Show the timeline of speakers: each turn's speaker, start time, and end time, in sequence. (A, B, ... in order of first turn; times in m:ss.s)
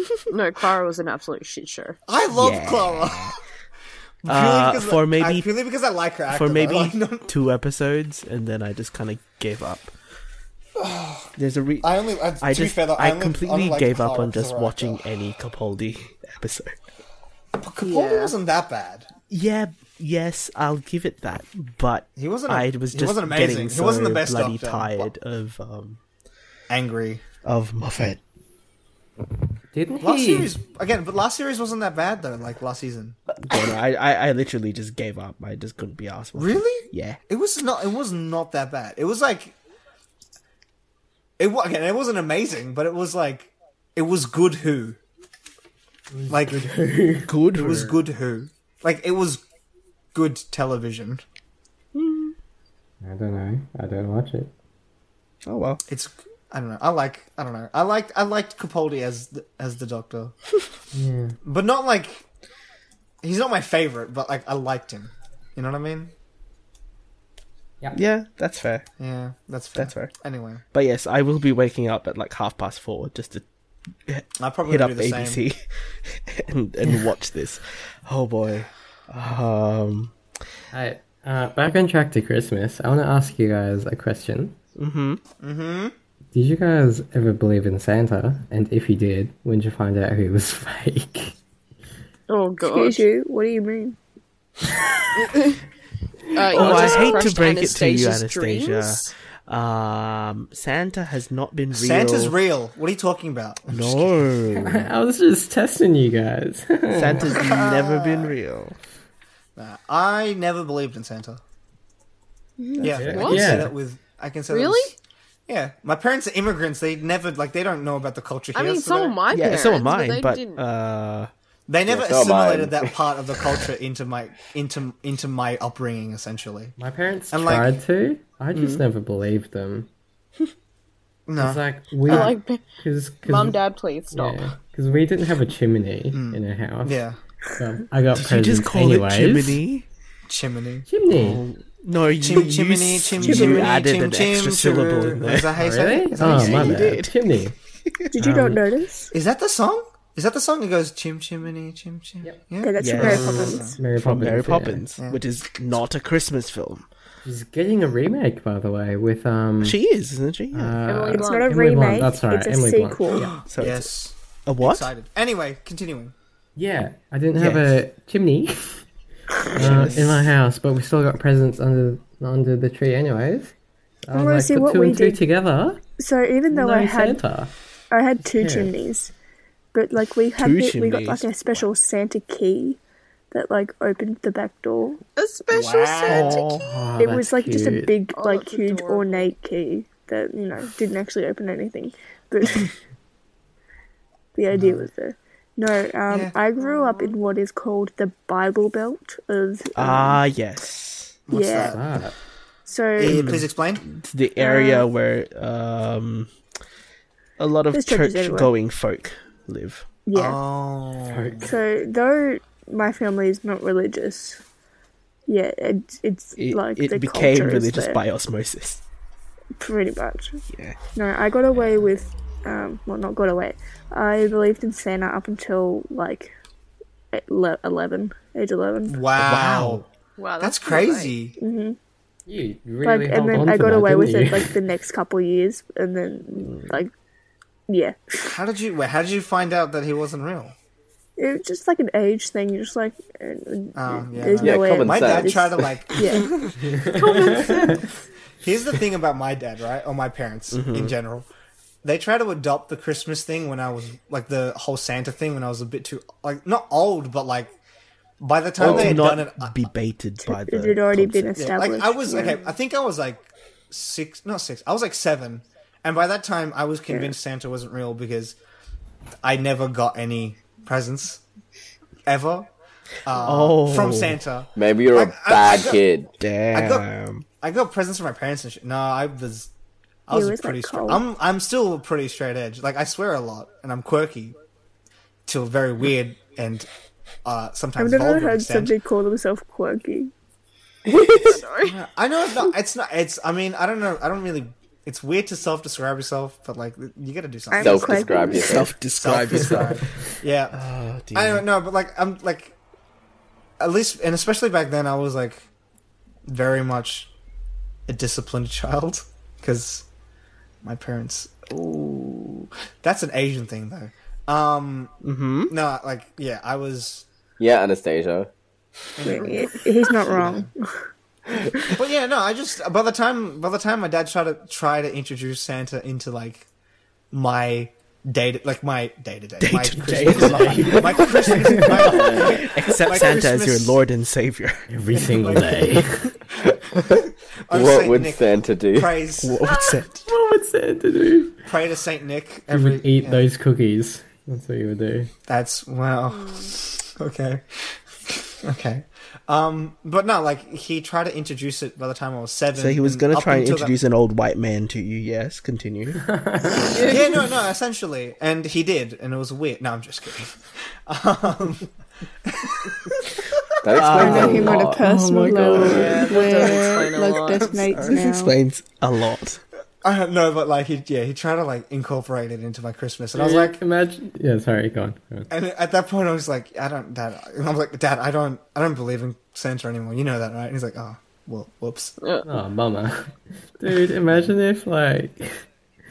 0:00.3-0:02.0 A
0:02.1-0:03.3 B
0:02.3-0:03.4 C
0:04.2-0:07.3 B
0:04.2-0:05.5 C
0:06.3-0:09.9 C
0:10.8-0:11.3 B
0:11.4-0:16.8 C
0:11.8-0:15.0 B
0:17.6-0:19.1 B
0:17.8-0:18.3 A
0:19.3-0:26.0 C
0:22.2-0:25.1 B
0:26.7-0:27.2 B
0:27.4-0:28.2 C
0:29.7-0:30.5 D
0:30.0-0:33.2 B
0:33.4-0:37.2 C
0:36.3-0:39.5 B
0:41.4-0:45.0 B
0:46.1-0:47.8 D
0:46.3-0:46.6 B
0:47.2-0:48.0 C
0:47.5-0:49.4 B
0:50.1-0:51.2 B
0:51.9-0:52.3 C
0:53.0-0:54.5 D
0:55.4-0:55.8 C
0:55.9-1:00.3 B
1:00.9-1:01.4 D
1:01.4-1:02.2 B
1:03.2-1:06.1 B
1:07.9-1:08.9 C
1:09.0-1:10.6 B
1:09.7-1:10.1 C
1:10.7-1:13.4 C
1:14.0-1:20.1 C
1:14.4-1:15.4 B
1:20.7-1:24.6 D
1:24.8-1:25.2 C
1:25.4-1:25.9 B
1:26.3-1:31.4 D
1:32.3-1:33.1 A
1:32.6-1:34.0 E
1:35.2-1:35.6 A
1:36.3-1:39.1 A
1:36.5-1:42.4 C
1:41.7-1:44.2 B
1:43.7-1:44.9 C
1:44.6-1:47.3 D
1:46.9-1:48.8 C
1:47.3-1:48.3 B
1:49.6-1:51.4 B
1:52.6-1:53.6 A
1:52.8-1:53.6 C
1:52.8-1:54.9 B
1:52.9-1:53.7 D
1:54.5-1:54.9 A
1:55.5-1:59.2 B
1:58.5-2:00.6 A
1:59.3-2:01.3 C
2:01.7-2:06.8 B
2:01.9-2:03.0 F
2:06.8-2:09.9 D
2:07.3-2:07.7 B
2:08.5-2:08.8 C
2:11.3-2:12.3 B
2:11.4-2:13.6 D
2:12.1-2:12.6 A
2:13.2-2:14.5 A
2:14.1-2:17.0 D
2:16.1-2:17.2 B
2:17.6-2:19.6 D
2:18.1-2:19.9 C
2:20.3-2:20.9 B
2:20.9-2:21.4 D
2:21.0-2:25.5 C
2:22.2-2:26.9 B
2:23.2-2:23.7 E
2:25.6-2:27.5 D
2:26.1-2:27.2 C
2:28.1-2:29.1 E
2:28.2-2:28.6 D
2:29.1-2:33.8 B
2:32.6-2:33.8 E
2:32.8-2:36.8 C
2:33.0-2:34.8 D
2:37.2-2:39.8 D
2:39.6-2:40.8 C
2:40.5-2:43.3 D
2:40.9-2:41.5 A
2:41.1-2:43.3 E
2:43.1-2:46.1 B
2:43.4-2:43.9 C
2:44.4-2:44.9 C
2:46.6-2:48.8 D
2:47.4-2:47.8 C
2:49.5-2:53.5 D
2:49.5-2:50.3 C
2:49.6-2:49.9 B
2:54.0-2:55.8 D
2:54.1-2:55.2 E
2:56.0-2:57.2 E
2:56.5-2:57.5 D
2:57.9-2:59.1 E
2:58.2-2:58.7 D
2:59.7-3:02.8 E
3:00.4-3:01.6 C
3:03.3-3:05.0 E
3:05.2-3:06.6 A
3:05.5-3:06.6 B
3:06.1-3:06.5 C
3:06.6-3:07.9 D
3:07.0-3:12.7 E
3:08.1-3:09.3 A
3:14.3-3:20.2 E
3:16.1-3:16.3 B
3:16.6-3:17.2 A
3:19.8-3:21.2 C
3:21.3-3:21.8 B
3:21.3-3:21.8 E
3:21.7-3:22.2 D
3:22.6-3:23.3 E
3:23.0-3:23.8 B
3:23.0-3:26.3 C
3:24.4-3:24.8 E
3:27.4-3:29.9 C
3:27.7-3:28.5 E
3:30.0-3:30.4 E
3:30.1-3:31.6 B
3:31.1-3:31.5 D
3:31.4-3:34.4 E
3:35.3-3:38.0 E
3:36.4-3:38.8 C
3:39.6-3:40.4 E
3:40.5-3:40.8 C
3:40.9-3:46.3 E
3:47.1-3:49.0 E
3:48.9-3:49.9 B
3:49.2-3:49.8 C
3:50.2-3:51.1 A
3:50.4-3:51.4 B
3:51.4-3:51.8 E
3:52.3-3:54.5 D
3:52.8-3:56.9 E
3:56.4-3:56.7 C
3:57.7-3:58.4 E
3:58.2-4:00.5 B
4:01.2-4:06.3 E
4:03.7-4:07.6 B
4:04.4-4:05.5 F
4:06.6-4:07.8 D
4:08.4-4:11.3 B
4:10.5-4:11.0 C
4:11.8-4:17.5 B
4:18.2-4:19.6 B
4:18.6-4:21.3 C
4:20.2-4:22.4 E
4:21.4-4:28.4 B
4:29.2-4:31.2 B
4:32.0-4:32.5 B
4:33.0-4:35.8 B
4:33.2-4:34.2 C
4:34.6-4:36.1 F
4:36.2-4:37.2 C
4:36.5-4:36.8 B
4:37.4-4:39.5 B
4:40.1-4:44.4 B
4:40.1-4:41.0 E
4:45.2-4:46.7 B
4:47.2-4:48.7 B
4:47.8-4:50.1 E
4:50.9-4:51.4 C
4:51.2-4:51.8 A
4:51.6-5:00.6 B
4:57.5-4:58.7 E
4:57.6-4:58.8 F
4:58.2-4:59.9 C
5:00.5-5:01.5 C
5:01.1-5:02.5 B
5:03.6-5:05.4 B
5:06.2-5:07.1 B
5:07.9-5:09.8 B
5:10.6-5:14.9 B
5:15.0-5:15.5 C
5:15.5-5:17.0 B
5:17.4-5:18.3 F
5:19.0-5:20.5 B
5:19.0-5:20.5 E
5:21.7-5:26.5 B
5:27.1-5:33.8 B
5:29.4-5:34.7 C
5:29.8-5:32.2 D
5:34.7-5:36.1 D
5:34.9-5:36.0 B
5:36.8-5:39.4 B
5:37.5-5:39.0 F
5:39.2-5:40.1 C
5:39.4-5:41.4 D
5:41.5-5:43.3 B
5:42.5-5:45.1 D
5:45.3-5:47.4 B
5:46.1-5:46.5 A
5:48.1-5:53.7 B
5:52.5-5:56.0 C
5:56.0-5:56.9 D
5:56.7-5:57.1 A
5:56.8-6:01.7 B
6:02.2-6:04.4 B
6:03.6-6:04.8 F
6:03.8-6:06.2 C
6:03.9-6:08.3 E
6:04.8-6:06.1 D
6:05.6-6:07.5 A
6:07.5-6:07.7 B
6:07.7-6:09.4 C
6:09.8-6:13.6 B
6:13.1-6:15.3 D
6:15.3-6:22.0 B
6:22.0-6:22.3 A
6:22.2-6:25.4 D